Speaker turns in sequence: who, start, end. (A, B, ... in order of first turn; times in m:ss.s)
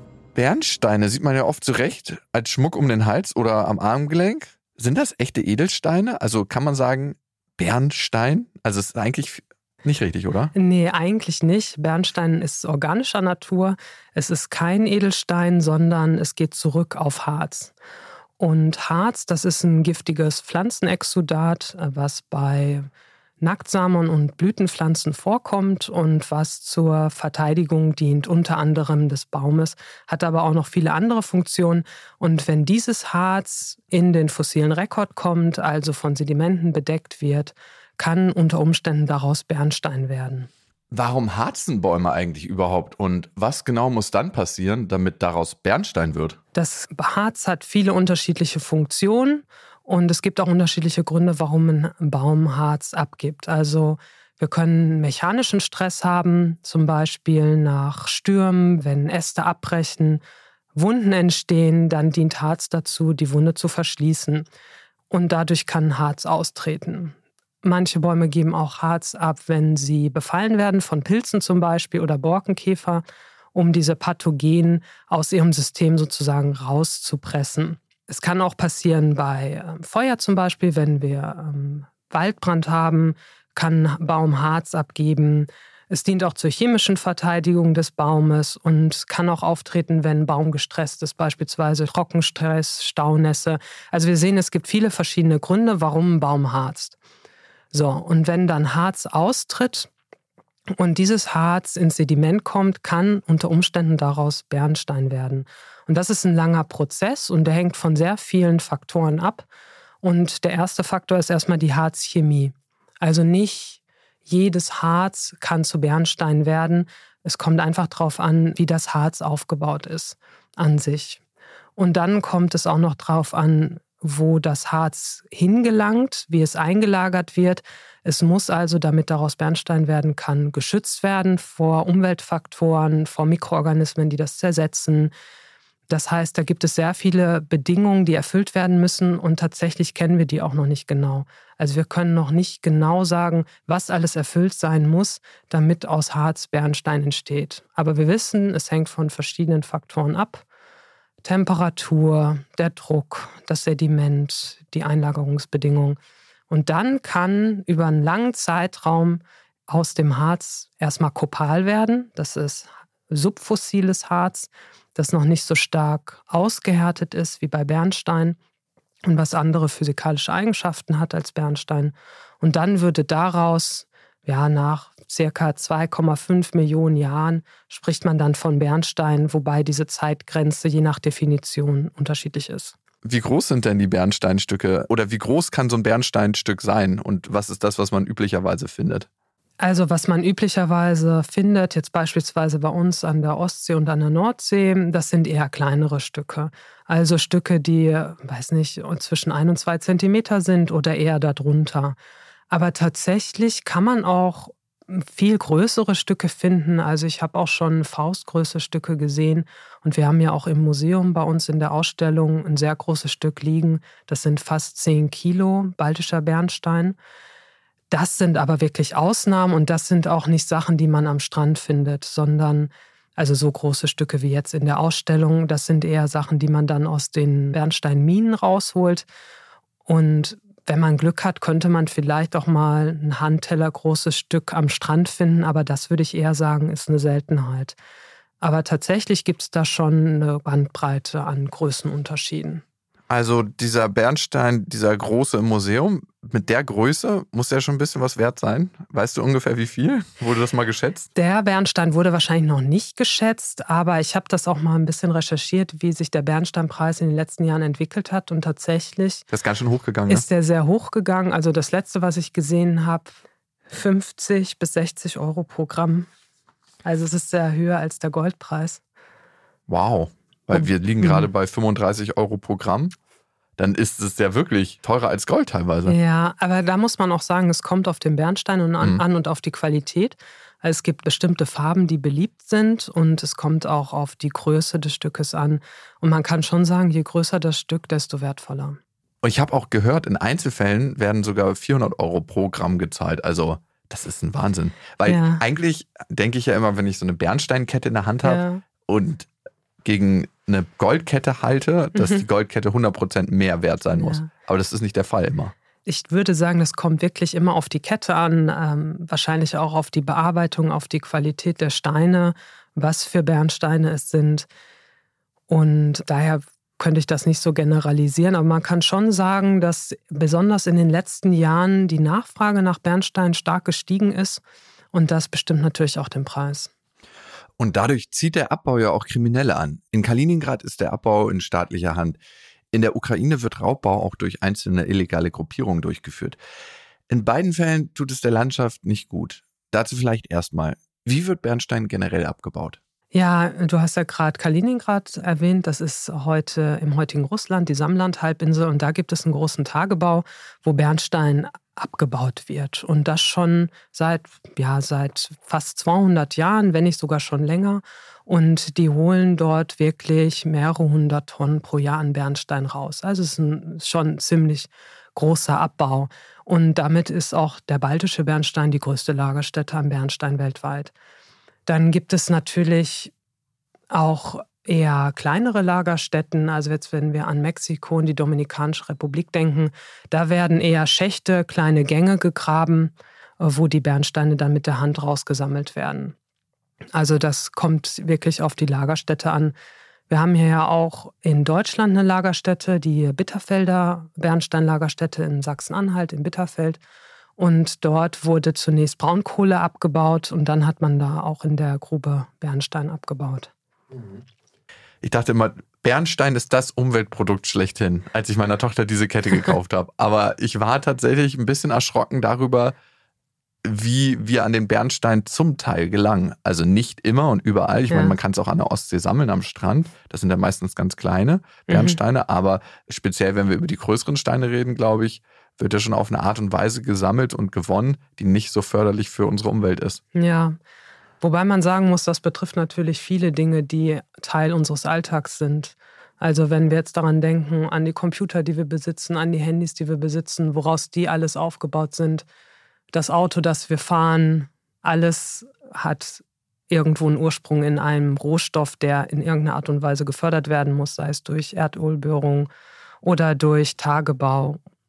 0:00.3-0:10.5 A
0:10.5-0:17.7 B
0:18.4-0:22.9 B
0:23.4-0:40.5 B
0:40.9-0:46.4 A
0:46.5-1:00.2 B
1:00.8-1:04.5 B
1:05.1-1:37.0 B
1:37.7-1:39.9 B
1:40.8-1:49.5 B
1:50.0-2:01.2 B
2:01.8-2:15.1 B
2:15.9-2:30.4 B
2:31.2-2:36.0 B
2:36.5-2:48.4 B
2:49.0-3:02.8 B
3:03.0-3:09.1 A
3:09.6-3:22.0 B
3:22.5-3:37.0 B
3:37.9-3:49.1 B
3:49.9-3:57.8 B
3:58.4-4:02.6 B
4:03.1-4:11.1 A
4:11.2-4:19.2 B
4:19.3-4:20.2 A
4:20.1-4:23.1 B
4:23.7-4:26.1 B
4:26.8-4:28.8 B
4:29.7-4:32.9 A
4:30.6-4:31.3 B
4:33.6-4:36.0 A
4:35.9-4:48.8 B
4:49.2-4:59.3 A
4:55.0-4:55.4 B
4:58.2-4:58.6 B
4:59.8-5:05.5 A
5:01.9-5:02.2 B
5:03.9-5:04.3 B
5:05.9-5:14.5 B
5:15.5-5:24.4 B
5:24.9-5:26.7 B
5:27.6-5:32.2 A
5:32.7-5:36.4 A
5:37.1-5:42.8 A
5:43.1-6:10.9 B
6:11.7-6:13.1 B
6:13.9-6:26.1 B
6:26.9-6:29.5 B
6:30.1-6:36.8 B
6:37.4-6:43.5 B
6:45.0-6:52.8 A
6:53.6-7:10.0 A
6:57.9-6:58.2 B
7:01.7-7:02.0 B
7:10.1-7:10.6 B
7:11.2-7:22.2 B
7:22.9-7:32.5 B
7:33.0-7:34.6 B